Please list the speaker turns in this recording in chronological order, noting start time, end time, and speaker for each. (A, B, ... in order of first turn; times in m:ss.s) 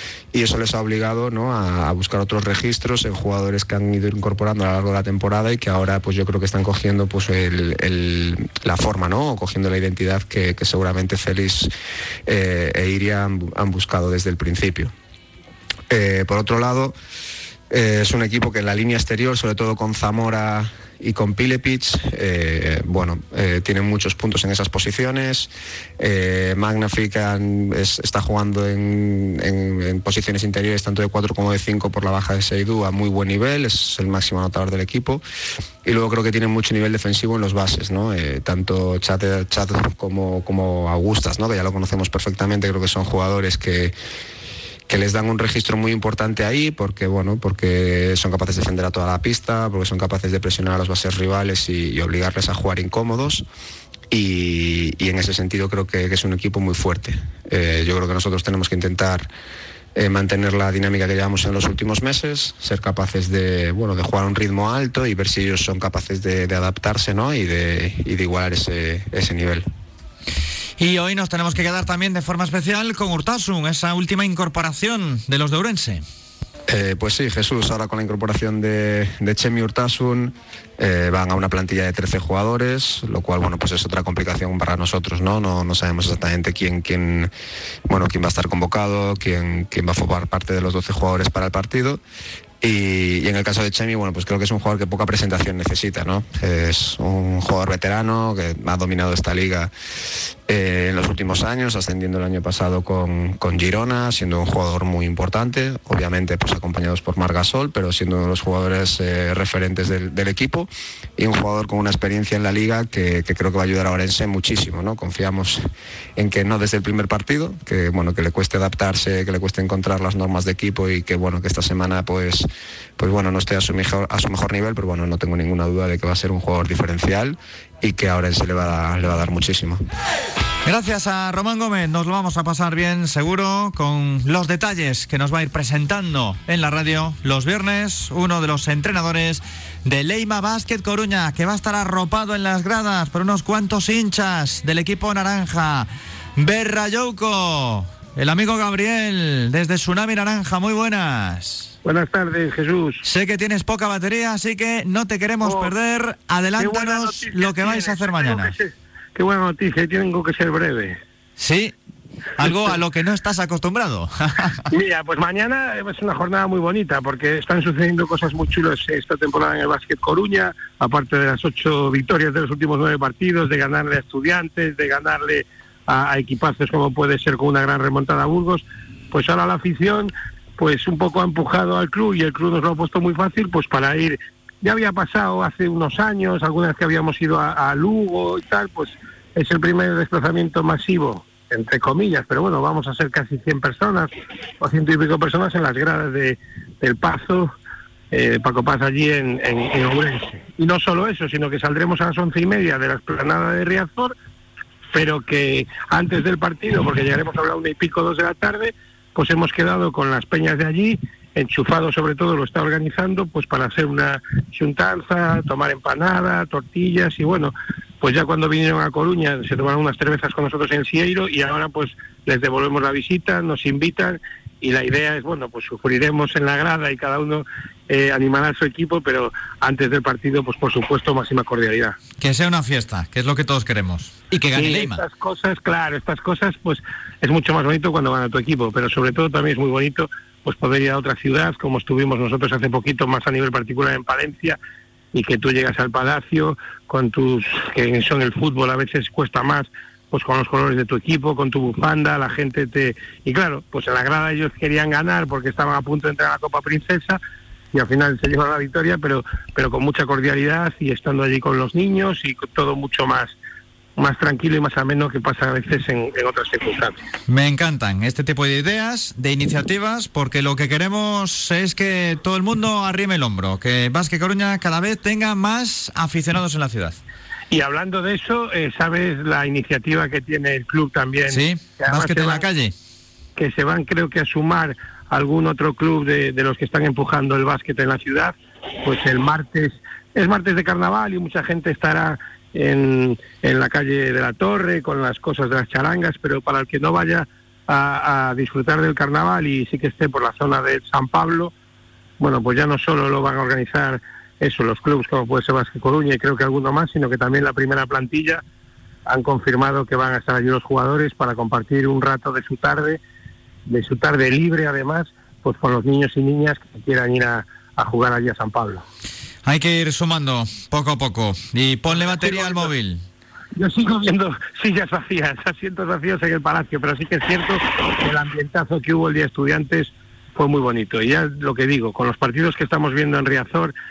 0:00.3-0:11.7 A
0:12.3-0:14.9 A
0:15.9-0:16.9 A
0:17.7-0:35.2 A
0:35.8-0:43.9 A
0:44.9-0:53.4 A
0:54.1-0:59.3 A
0:59.9-1:09.6 A
1:10.8-1:16.0 B
1:16.7-1:27.3 A
1:27.9-1:32.0 A
1:32.6-1:39.7 A
1:40.5-2:09.8 A
2:10.6-2:31.7 B
2:31.8-2:33.0 C
2:33.0-2:38.5 B
2:35.4-2:35.7 C
2:36.6-2:41.0 C
2:41.4-2:41.7 B
2:42.4-2:44.6 B
2:44.7-3:17.5 C
3:18.1-3:24.1 C
3:24.9-3:52.0 C
3:52.2-3:55.0 B
3:54.5-4:04.6 C
4:05.1-4:17.2 C
4:17.7-4:23.4 C
4:24.0-4:27.0 C
4:27.3-4:37.0 B
4:37.5-4:42.4 C
4:41.3-4:42.7 B
4:43.4-5:01.5 C
5:02.2-5:08.4 C
5:09.1-5:13.0 C
5:13.7-5:18.8 C
5:19.4-5:23.0 B
5:22.0-5:22.7 C
5:23.6-5:33.7 C